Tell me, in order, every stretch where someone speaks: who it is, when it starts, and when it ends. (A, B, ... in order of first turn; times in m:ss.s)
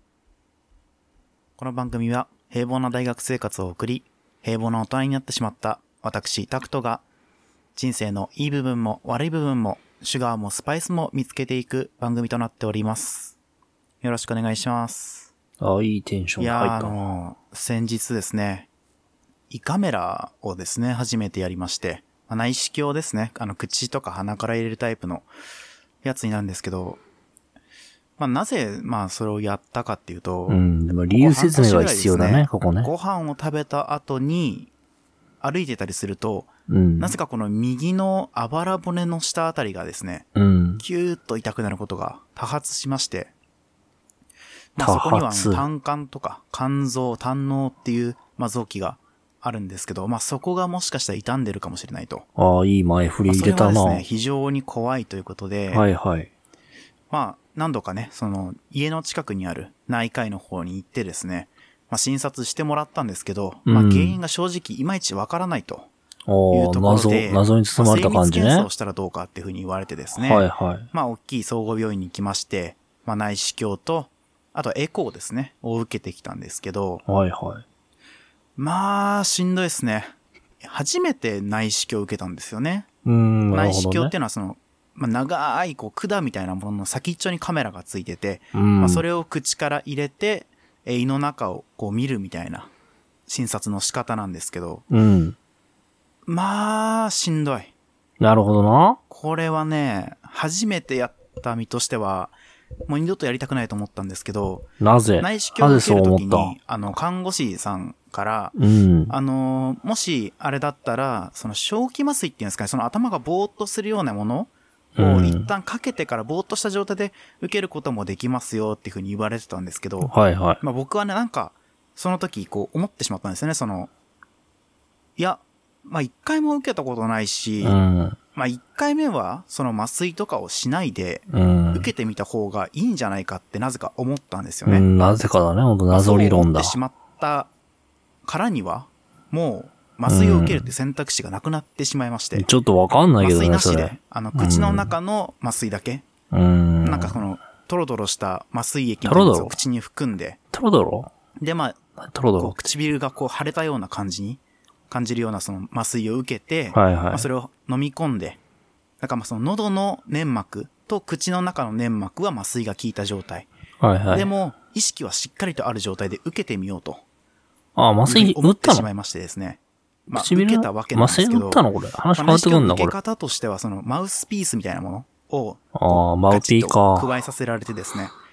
0:01.6-0:07.0 A
0:07.7-0:13.4 A
0:14.0-0:15.3 A
0:15.6-0:17.0 B
0:16.4-0:18.7 A
0:19.5-0:25.3 A
0:26.0-0:27.0 A
0:28.2-0:30.6 A
0:30.5-0:32.9 B
0:31.1-0:34.7 A
0:35.4-0:40.3 A
0:36.7-0:37.2 B
0:40.3-0:40.8 B
0:40.8-0:43.3 A
0:44.7-0:52.2 A
0:44.8-0:45.7 B
0:52.4-0:54.0 B
0:53.2-0:55.8 A
0:55.7-0:56.3 B
0:57.1-1:05.9 A
1:03.6-1:04.2 B
1:06.3-1:08.7 B
1:06.5-1:17.0 A
1:10.2-1:10.9 B
1:17.0-1:17.6 B
1:18.6-1:22.9 A
1:23.0-1:24.1 B
1:23.5-1:32.7 A
1:28.5-1:29.0 B
1:33.3-1:34.8 A
1:34.9-1:35.4 B
1:36.2-1:37.7 A
1:38.2-1:39.0 B
1:39.1-1:42.3 A
1:42.9-1:44.6 A
1:44.8-1:46.6 B
1:45.2-1:48.5 A
1:48.5-1:49.1 B
1:49.1-2:03.9 A
1:55.0-1:55.5 B
2:00.0-2:00.6 B
2:05.2-2:07.8 A
2:07.6-2:08.2 B
2:08.3-2:14.9 A
2:11.3-2:11.9 B
2:14.6-2:16.8 B
2:15.9-2:17.5 A
2:18.2-2:22.4 A
2:20.0-2:20.7 B
2:22.3-2:24.9 B
2:23.2-2:26.0 A
2:26.3-2:27.2 B
2:26.8-2:30.4 A
2:29.0-2:29.6 B
2:30.5-2:31.1 B
2:31.4-2:31.8 A
2:32.0-2:32.5 B
2:32.4-2:38.4 A
2:36.7-2:37.3 B
2:39.0-2:43.5 A
2:43.8-2:44.3 B
2:44.1-2:47.0 A
2:47.8-2:48.9 B
2:48.0-2:58.1 A
2:50.1-2:52.9 B
2:55.7-2:57.1 B